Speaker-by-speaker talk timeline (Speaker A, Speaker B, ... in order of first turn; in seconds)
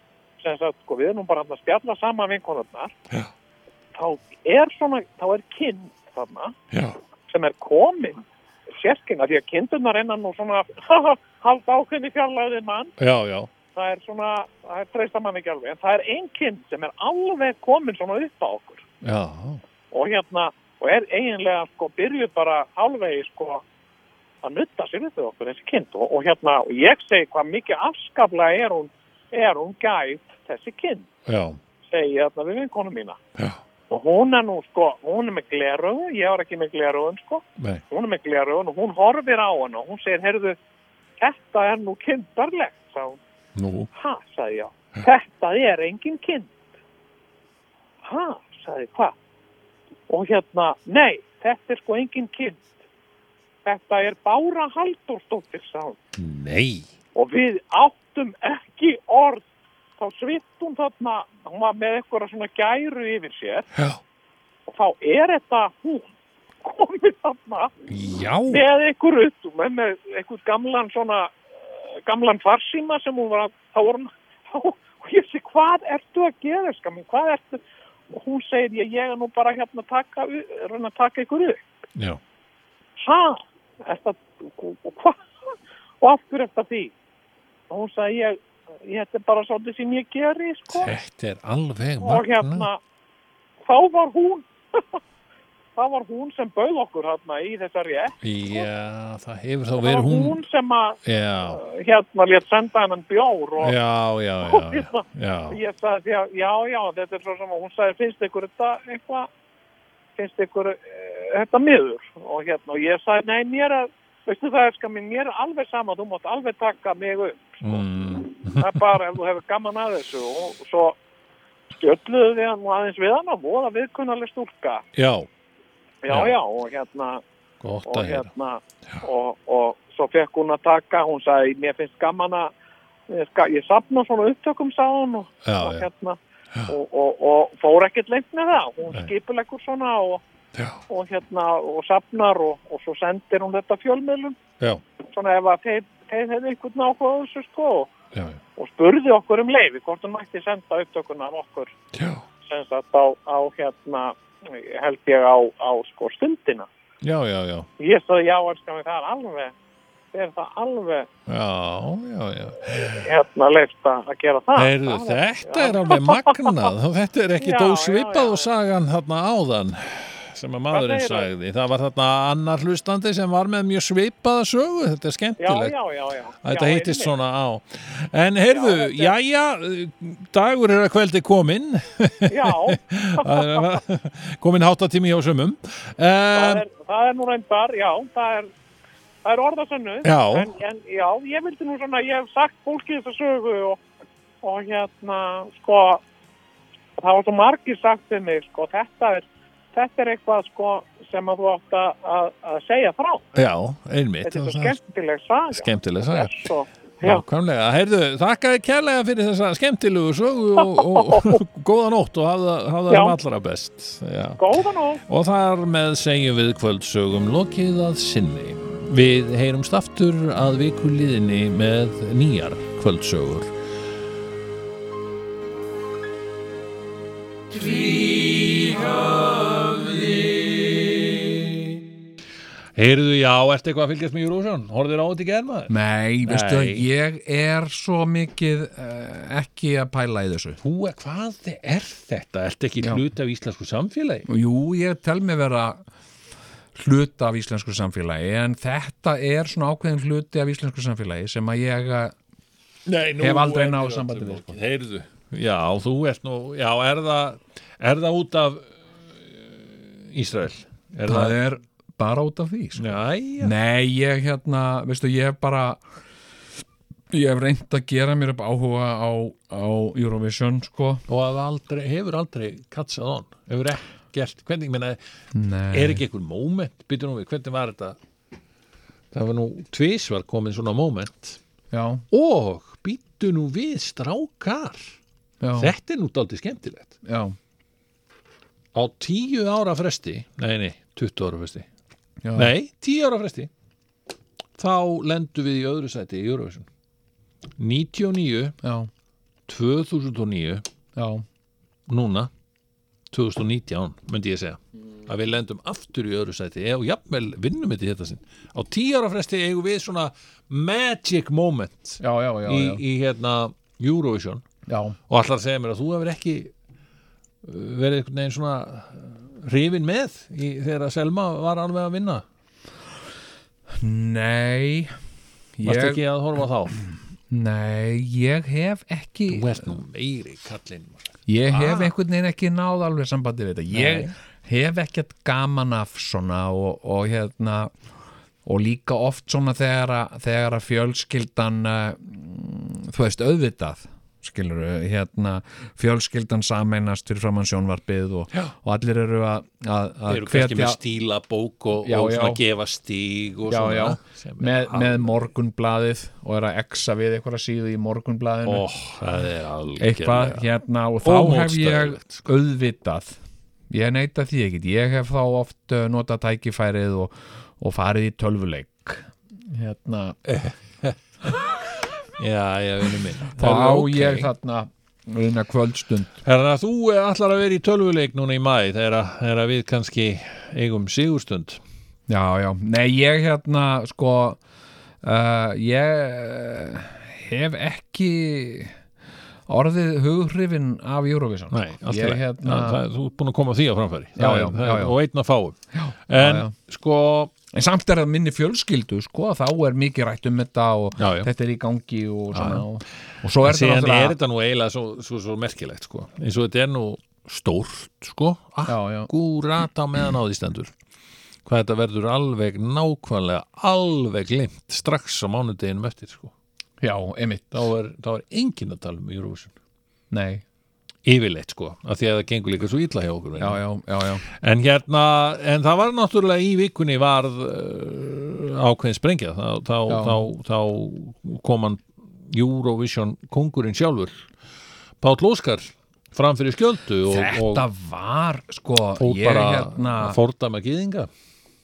Speaker A: 0.4-2.9, 3.9-6.5, 7.3-12.9, 13.7-18.8, 19.9-23.6, 24.4-31.1, 31.8-33.2, 33.9-40.6, 41.2-43.2, 43.9-46.5, 48.0-49.1, 50.1-52.7, 53.6-56.0, 57.1-59.4, 60.0-63.7, 64.7-66.1, 66.6-67.7, 68.5-71.3, 72.0-81.6, 83.0-85.2, 86.0-86.9, 87.7-90.9, 92.0-92.8, 93.6-94.8, 95.8-98.7, 99.8-103.7, 104.4-109.3, 110.2-117.8, 118.5-121.0, 121.7-124.8, 126.0-127.2, 127.8-132.5, 133.1-140.2, 140.9-144.4, 145.1-147.9, 148.6-151.7, 152.4-156.7, 157.8-159.5, 160.1-161.1, 162.7-166.6, 167.4-168.5, 170.7-171.3, 175.4-177.1, 178.5-179.1, 182.3-183.6, 186.3-188.5, 189.2-193.8, 194.4-196.0, 197.0-203.2, 204.2-207.2, 210.9-211.4, 212.9-213.1, 214.4-215.0
Speaker B: 6.7-7.0, 13.0-13.5, 19.0-19.6, 31.2-31.6, 37.6-37.8, 43.5-43.9, 56.1-56.9, 63.8-64.0, 67.9-68.6, 81.9-82.2, 90.7-92.7, 98.2-100.4, 101.0-101.6, 103.6-105.6, 117.6-119.0, 124.9-125.3, 126.1-126.3, 127.6-128.3, 135.4-135.9, 140.5-140.8, 148.1-148.4, 151.9-152.2, 157.0-157.7, 161.3-163.1, 164.5-175.8, 176.4-186.6, 190.0-190.5, 203.3-204.8, 205.5-206.5, 207.0-214.4, 215.1-223.5, 227.5-231.7, 232.8-235.7, 236.2-236.9, 240.6-244.3, 252.8-258.7, 259.2-261.4, 262.8-263.5, 271.1-275.0, 275.7-278.0, 279.1-281.4, 282.1-285.0, 285.6-286.9, 288.7-291.7, 292.3-293.5, 294.6-296.7, 297.6-298.6, 299.5-300.6, 301.9-302.3, 303.1-314.4, 315.1-316.5, 317.4-322.2, 325.6-326.8, 329.3-331.9, 333.7-334.1, 350.1-355.2, 358.4-360.5, 361.0-362.2, 370.2-371.4, 372.2-374.3, 376.2-381.6, 391.5-395.6, 396.1-397.3, 401.0-401.3, 402.3-402.6, 403.4-410.7, 411.4-416.3, 417.5-419.5, 421.0-423.6, 424.2-434.3, 435.0-437.7, 439.0-441.1
Speaker C: 235.7-240.6, 244.3-245.8, 246.8-252.1, 253.2-254.6, 261.1-265.8, 267.1-271.0, 275.3-276.0, 281.7-282.0, 285.4-285.7, 287.0-287.4, 292.2-292.5, 298.6-298.9, 300.9-301.2, 312.0-312.8, 314.7-315.0, 323.8-324.9, 325.6-326.0, 327.3-329.8, 331.3-337.7, 338.4-350.8, 351.8-352.4, 353.5-358.6, 359.8-363.2, 363.7-370.2, 373.4-376.2, 382.1-384.4, 385.0-388.7, 389.5-392.8, 394.2-395.0, 395.7-396.5, 397.5-404.1, 408.6-409.1, 416.8-417.6, 420.1-420.4, 423.4-424.2, 429.9-430.2, 437.1-440.2